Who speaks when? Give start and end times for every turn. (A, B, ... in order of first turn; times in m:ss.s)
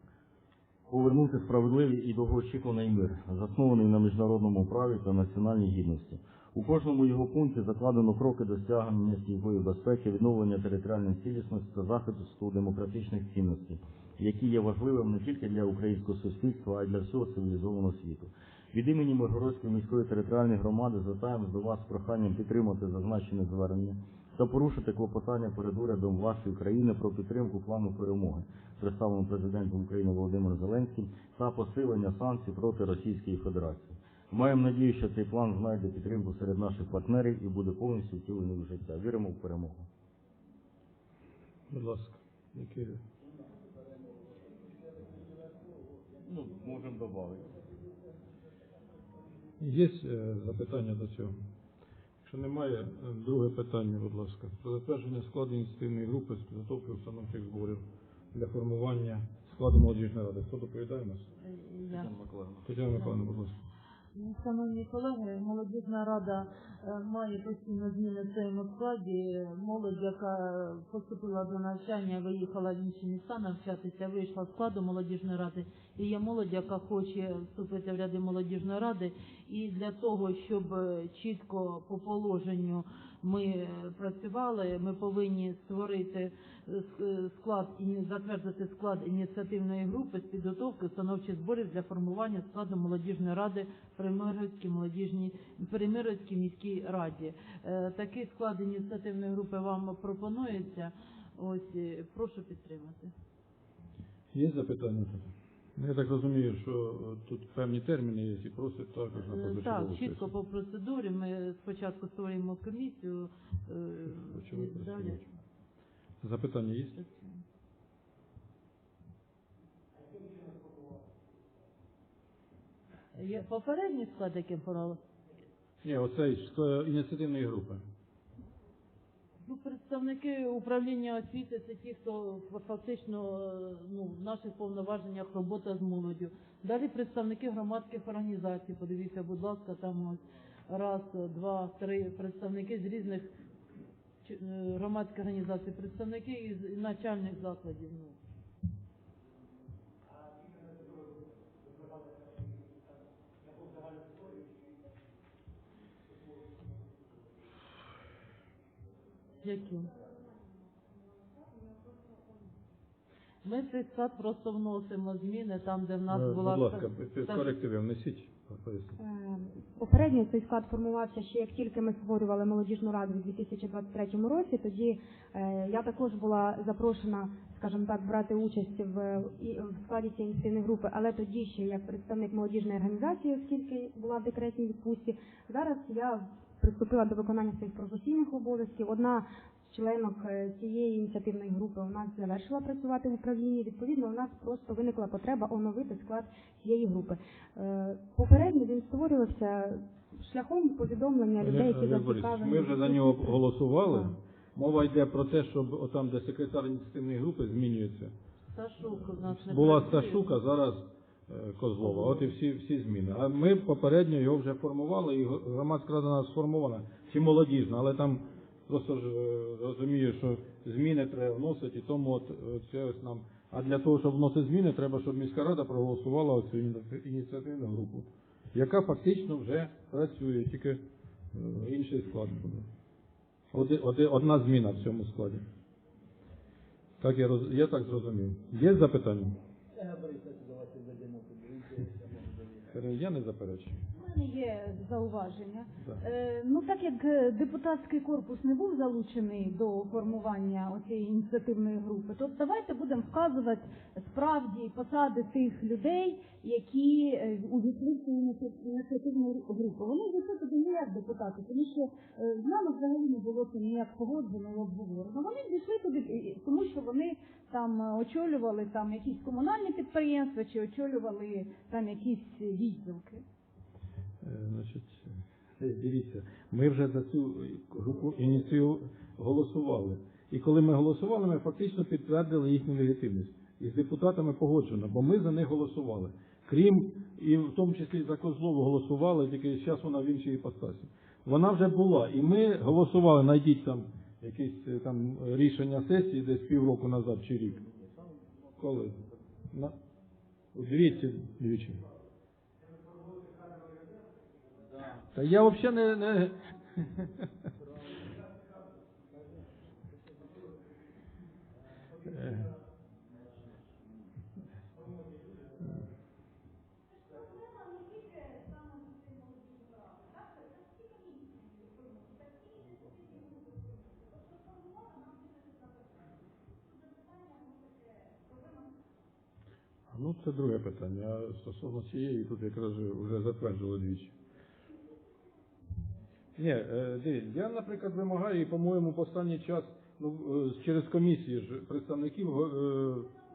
0:00.9-0:39.9 A
0:41.7-0:43.0 B
0:46.2-0:47.5 A
0:49.6-0:51.4 B
0:52.2-0:57.8 B
0:58.3-1:01.3 B
1:01.4-1:02.1 C
1:01.9-1:02.7 A
1:02.7-1:03.6 B
1:04.2-1:43.1 C
1:44.3-1:50.3 B
1:49.3-1:55.3 C
1:54.2-1:55.2 B
1:56.2-1:57.0 B
1:57.0-1:57.3 C
2:03.2-2:05.0 C
2:05.8-2:07.8 B
2:09.4-2:23.3 C
2:24.2-2:28.2 C
2:39.4-2:39.9 C
2:43.4-2:47.5 C
2:46.1-2:49.0 B
2:49.0-3:24.2 D
3:21.4-3:28.1 B
3:28.5-3:30.2 C
3:29.3-3:50.8 B
3:51.3-3:52.7 B
3:53.5-3:55.4 B
3:57.0-3:59.3 B
4:02.7-4:03.8 B
4:04.0-4:33.2 E
4:34.2-4:57.6 B
4:58.6-4:59.0 B
5:00.5-5:01.8 B
5:05.1-5:07.1 B
5:12.1-5:12.5 B
5:29.9-5:34.1 B
5:36.4-5:43.1 B